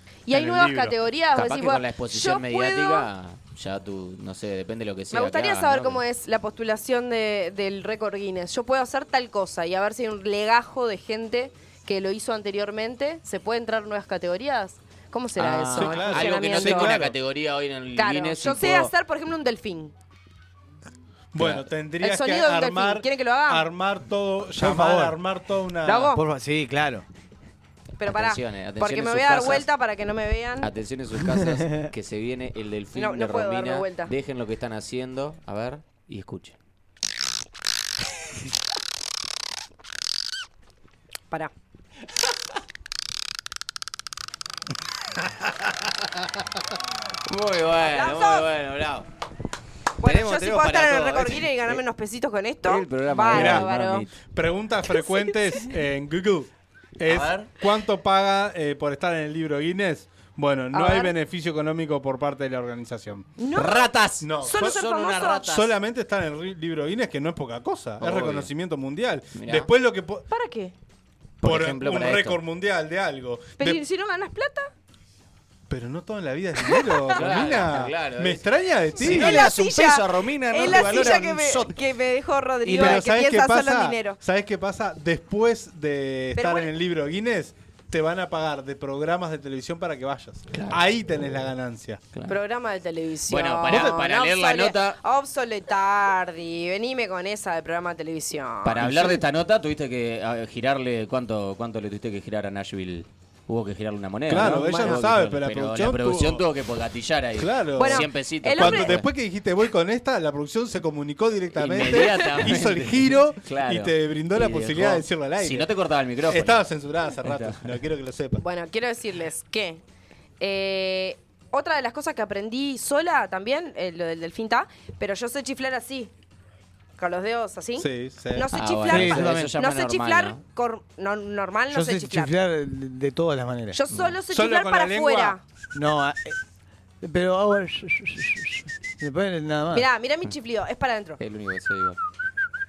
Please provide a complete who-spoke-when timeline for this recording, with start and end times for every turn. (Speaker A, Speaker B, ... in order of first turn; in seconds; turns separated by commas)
Speaker A: 0.3-3.1, Speaker B: 0.3-1.0, Speaker C: 1.3-6.0, Speaker A: 5.1-17.0, Speaker C: 15.3-18.9, Speaker B: 15.8-17.1, Speaker A: 17.9-19.9, Speaker B: 21.3-26.1, Speaker C: 21.4-21.6, Speaker A: 22.0-23.7, Speaker D: 24.6-25.1, Speaker A: 25.8-26.2, Speaker D: 26.1-27.0, Speaker A: 28.0-30.7, Speaker C: 28.0-29.7, Speaker C: 30.6-36.5, Speaker A: 32.9-34.1, Speaker C: 47.3-49.0, Speaker A: 47.9-48.5, Speaker A: 50.0-54.0, Speaker C: 50.0-51.8, Speaker C: 52.6-54.1, Speaker B: 53.3-53.7, Speaker B: 54.3-63.3, Speaker A: 54.9-55.6, Speaker C: 57.1-57.5, Speaker A: 60.7-61.1, Speaker A: 63.4-65.5, Speaker C: 63.5-65.7, Speaker B: 64.2-64.8, Speaker B: 65.4-70.3, Speaker C: 68.0-68.5, Speaker C: 69.3-69.7, Speaker A: 70.3-70.7, Speaker C: 71.4-72.4, Speaker B: 71.4-73.8, Speaker A: 73.6-74.7, Speaker B: 75.7-79.5, Speaker A: 76.6-77.2, Speaker C: 77.1-78.4, Speaker A: 79.0-84.2, Speaker C: 79.0-81.7, Speaker B: 80.6-81.4, Speaker B: 82.6-92.0, Speaker A: 86.3-86.7, Speaker C: 90.5-90.8, Speaker A: 92.3-98.8, Speaker C: 93.3-95.0, Speaker C: 98.6-109.1, Speaker B: 98.8-99.2, Speaker B: 104.3-106.4, Speaker A: 104.4-105.0, Speaker B: 107.3-115.7, Speaker A: 107.8-109.0, Speaker C: 111.5-116.6, Speaker B: 116.2-118.4, Speaker C: 117.2-117.7, Speaker A: 118.4-119.8, Speaker A: 120.4-126.1, Speaker A: 127.0-132.3, Speaker B: 127.8-129.1, Speaker C: 128.5-130.4, Speaker D: 128.9-129.5, Speaker D: 131.7-133.8, Speaker A: 133.7-135.4, Speaker C: 133.9-134.2, Speaker B: 134.3-135.4, Speaker D: 135.7-136.4, Speaker D: 137.0-139.9, Speaker A: 139.7-141.2, Speaker C: 141.2-142.0